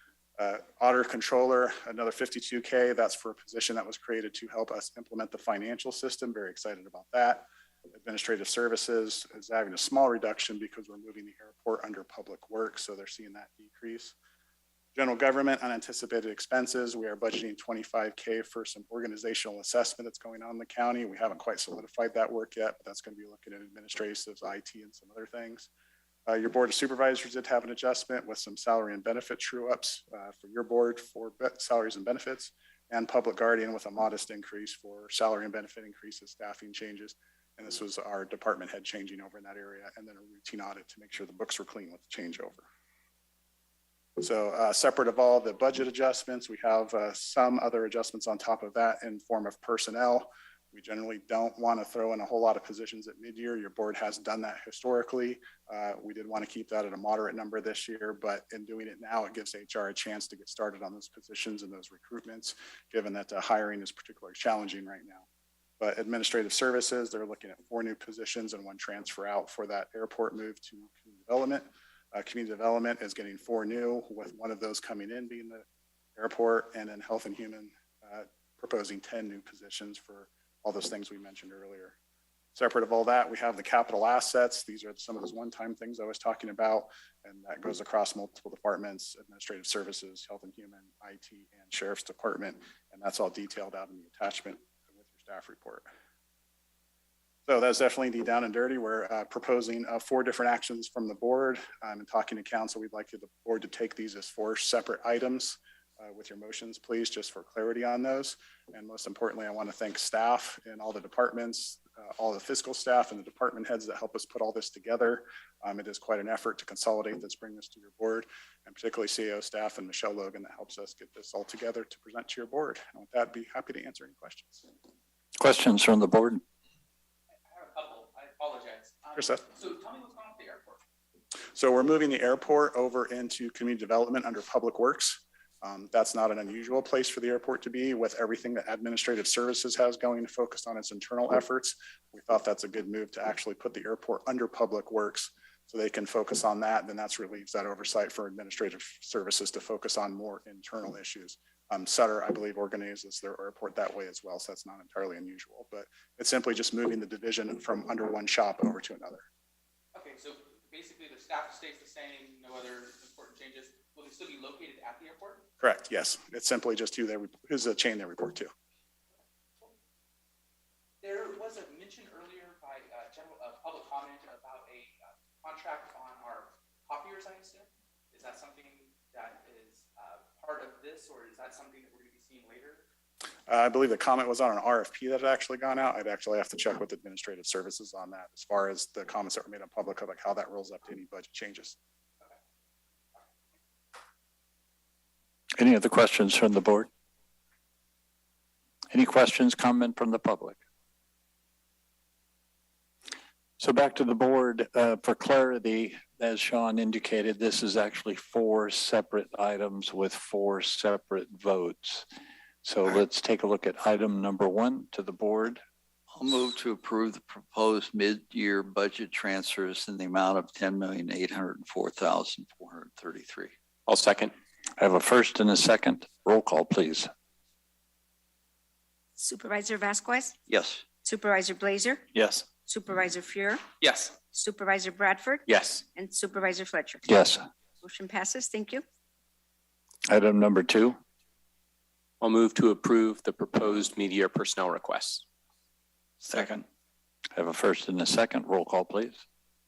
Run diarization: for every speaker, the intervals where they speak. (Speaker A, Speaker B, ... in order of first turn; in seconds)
Speaker A: 0.4-14.2, 14.9-25.7, 26.3-42.7, 44.2-65.3, 65.8-75.6, 76.2-82.0, 82.5-95.9, 97.5-124.7, 129.2-129.4, 131.5-159.3, 165.6-168.5, 183.5-191.8
Speaker B: 125.4-126.4, 195.6-196.9, 198.9-200.6, 203.6-212.1, 212.6-215.6, 224.8-227.1, 237.1-237.5, 240.1-241.0, 247.3-249.2
Speaker C: 127.5-130.8, 159.9-165.5, 171.0-182.8
Speaker D: 216.1-223.5, 230.5-230.8, 232.1-232.5, 246.3-246.6
Speaker E: 223.9-224.3, 233.8-234.1, 235.5-235.8, 242.2-245.2
Speaker F: 229.2-230.4, 231.0-232.1, 232.7-233.7, 234.2-237.0, 237.8-238.8